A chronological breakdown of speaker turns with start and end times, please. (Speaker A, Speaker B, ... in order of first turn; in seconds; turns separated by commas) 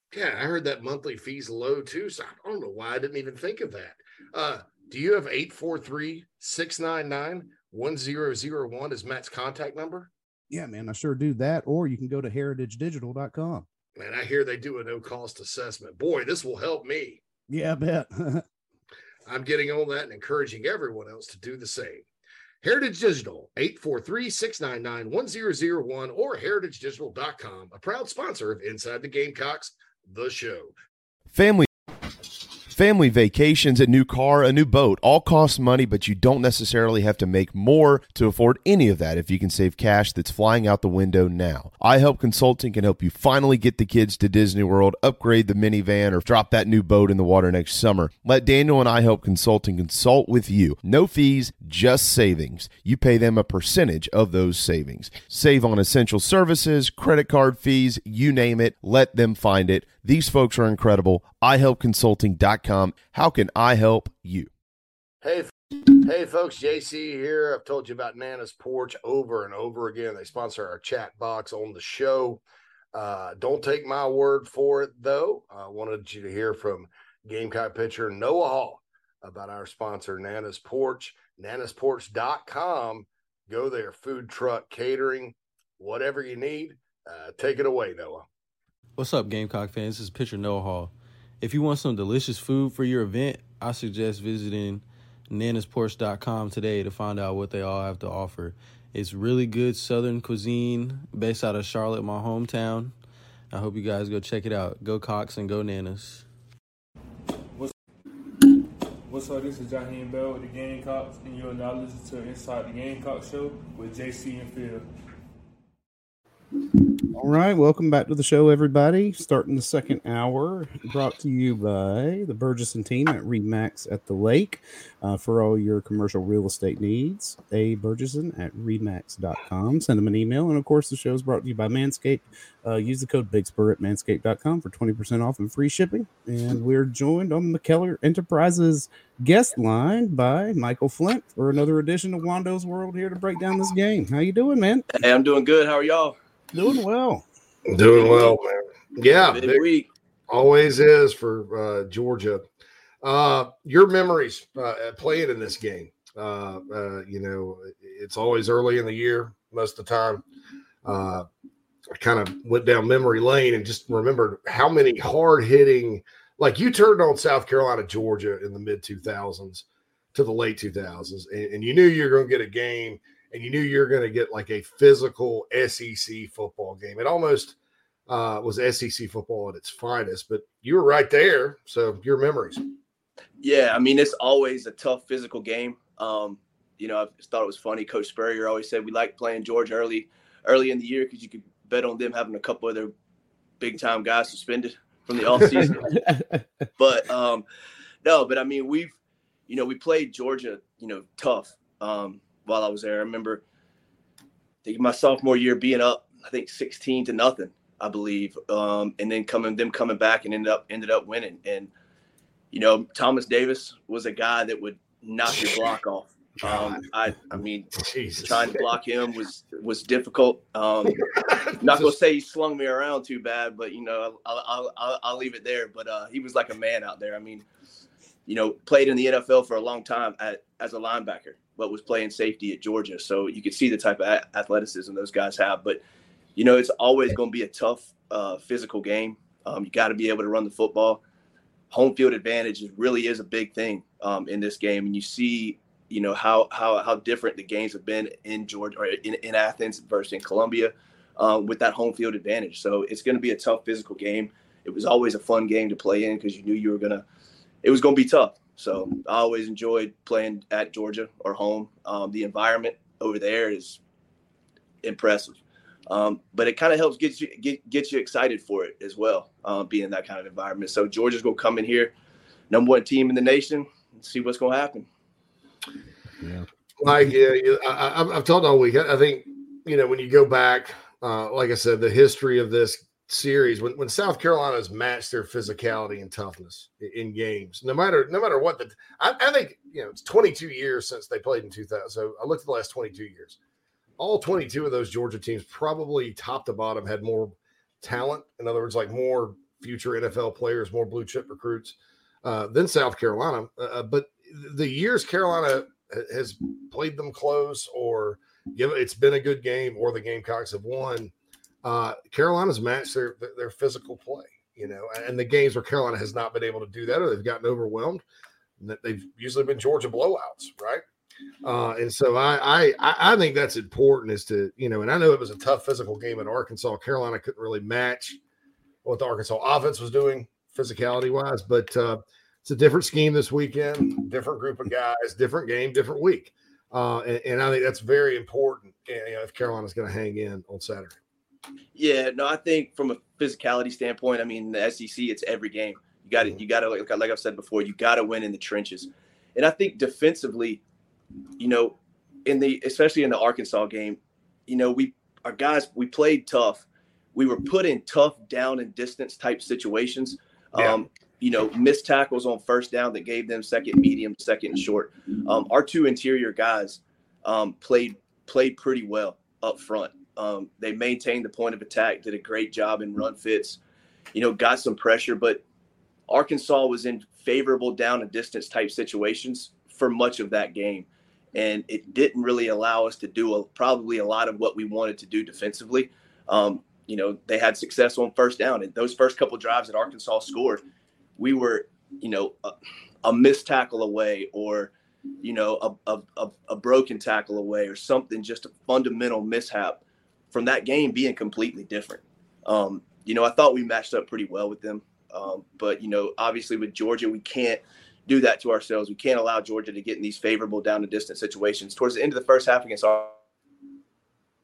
Speaker A: 0.1-10.1, Speaker B: 10.5-13.7, Speaker A: 14.0-17.2, Speaker B: 17.5-18.4, Speaker A: 19.3-22.0, Speaker A: 22.6-30.7, Speaker C: 31.3-31.7, Speaker C: 32.7-64.5, Speaker A: 65.2-72.4, Speaker A: 72.9-88.3, Speaker D: 89.0-103.0, Speaker D: 103.5-106.2, Speaker E: 109.0-114.9, Speaker B: 117.1-144.8, Speaker F: 144.9-146.2, Speaker B: 146.5-147.2, Speaker A: 147.7-149.6, Speaker F: 147.8-148.4, Speaker F: 149.2-149.9, Speaker A: 150.3-152.4, Speaker A: 153.0-160.2, Speaker A: 160.8-161.2, Speaker A: 161.9-177.6, Speaker A: 178.1-182.7, Speaker F: 183.4-192.9, Speaker F: 193.6-196.0, Speaker B: 195.6-196.5, Speaker F: 196.8-197.4, Speaker F: 198.0-198.9, Speaker F: 199.5-203.4, Speaker F: 204.6-211.7, Speaker F: 212.5-221.0, Speaker A: 216.4-216.8, Speaker A: 217.8-218.5, Speaker A: 221.2-221.9, Speaker F: 221.6-227.4, Speaker F: 228.2-235.8, Speaker F: 236.3-241.0, Speaker F: 241.7-257.0, Speaker F: 257.6-263.8, Speaker F: 264.8-271.9, Speaker F: 272.5-274.9, Speaker B: 276.2-276.4, Speaker A: 276.8-293.4, Speaker A: 294.0-311.1, Speaker A: 311.6-318.0, Speaker A: 318.6-320.8, Speaker A: 321.4-328.2, Speaker A: 328.8-340.9, Speaker F: 341.7-350.6, Speaker F: 351.4-373.6, Speaker F: 374.1-375.4, Speaker F: 376.1-390.6, Speaker F: 391.2-392.5, Speaker F: 393.0-413.2